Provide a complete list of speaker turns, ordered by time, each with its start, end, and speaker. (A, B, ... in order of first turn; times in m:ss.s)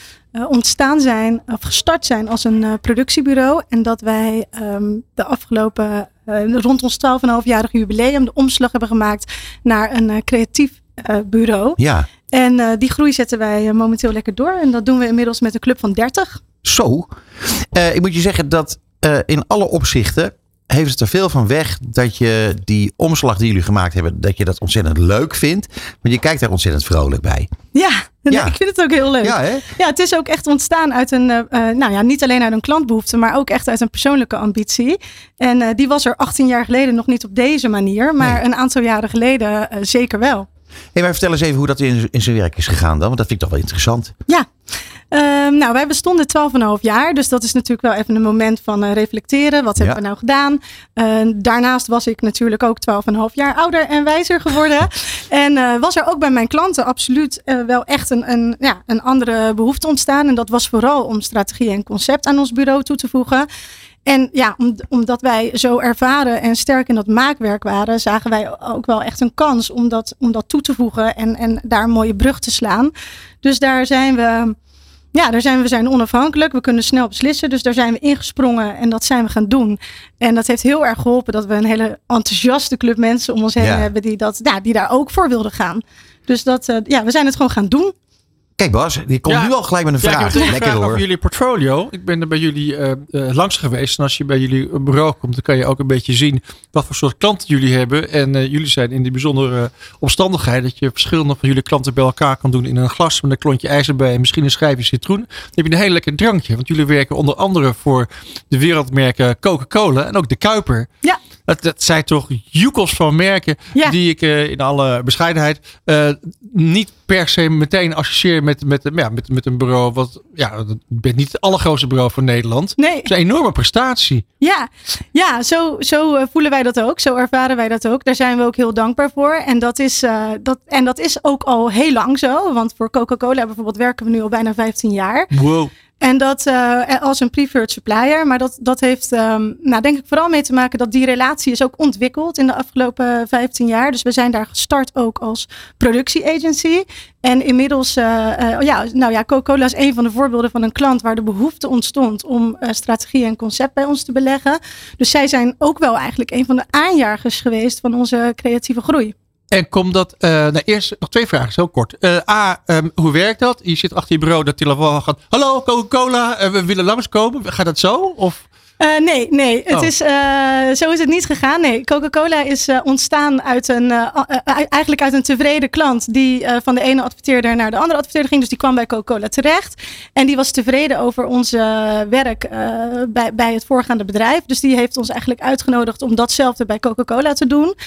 0:00.4-0:11.8 A
0:11.8-0:12.1 B
0:12.3-0:16.4 A
0:16.6-0:27.5 B
0:27.7-0:40.5 A
0:28.3-0:28.6 B
0:29.2-0:29.7 B
0:41.0-0:44.1 B
0:45.1-1:03.5 A
1:04.1-1:12.9 A
1:13.4-1:14.6 A
1:15.1-1:27.9 A
1:23.6-1:23.9 B
1:28.6-1:31.0 B
1:29.3-1:50.9 C
1:51.5-2:04.2 C
2:02.8-2:03.1 A
2:04.4-2:15.3 A
2:15.3-2:15.7 C
2:16.0-2:39.1 A
2:39.5-2:48.5 C
2:48.8-3:07.8 A